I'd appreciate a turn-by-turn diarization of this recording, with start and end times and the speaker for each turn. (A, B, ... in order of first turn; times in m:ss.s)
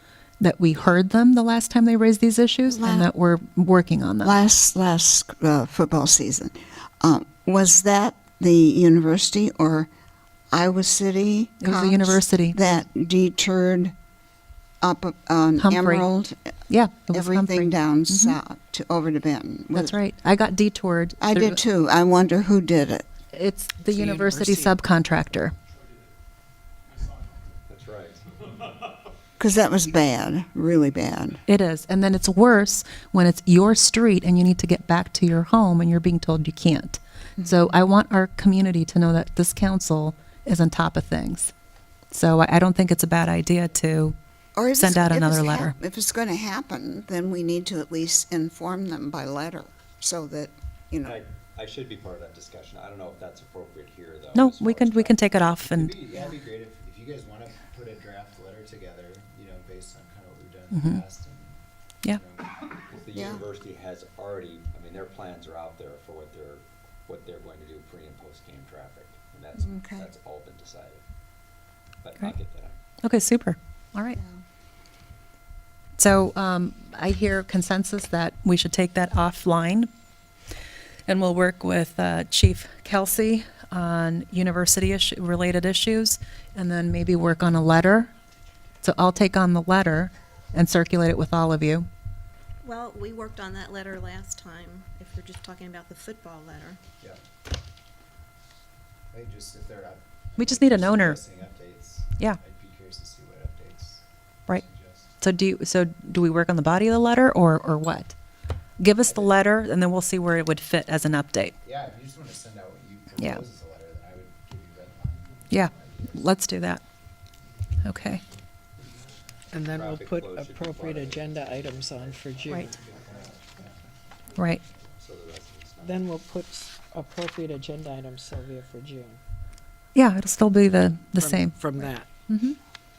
0:00.4-0:04.3 A
0:02.7-0:03.1 B
0:04.2-0:09.9 B
0:10.5-0:13.9 B
0:11.6-0:12.6 A
0:14.8-0:16.5 B
0:15.6-0:16.0 A
0:16.7-0:18.4 A
0:17.1-0:20.0 B
0:19.7-0:21.6 A
0:21.2-0:23.0 B
0:23.3-0:25.5 A
0:23.9-0:24.7 C
0:27.7-0:28.5 D
0:29.4-0:31.4 B
0:31.5-0:41.5 A
0:42.1-0:44.2 A
0:44.6-0:51.2 B
0:44.7-0:45.7 A
0:51.0-0:55.4 D
0:54.3-0:55.9 A
0:55.6-1:02.6 E
1:00.7-1:01.0 A
1:02.9-1:11.0 D
1:03.1-1:03.4 B
1:09.6-1:10.1 B
1:12.0-1:12.8 D
1:13.0-1:14.2 A
1:14.1-1:14.4 B
1:16.0-1:19.9 A
1:21.1-1:28.1 A
1:28.8-1:31.9 A
1:32.6-1:36.8 F
1:39.1-1:45.1 E
1:40.4-1:41.2 A
1:45.2-1:48.1 A
1:48.8-1:51.6 A
1:49.0-1:49.4 E
1:51.6-1:56.3 E
1:55.5-1:56.8 A
1:57.8-1:58.2 A
1:59.5-2:02.8 C
1:59.6-2:02.3 D
2:02.6-2:03.7 E
2:04.4-2:04.6 A
2:05.0-2:06.1 D
2:05.8-2:09.2 C
2:09.9-2:12.6 A
2:11.2-2:12.1 C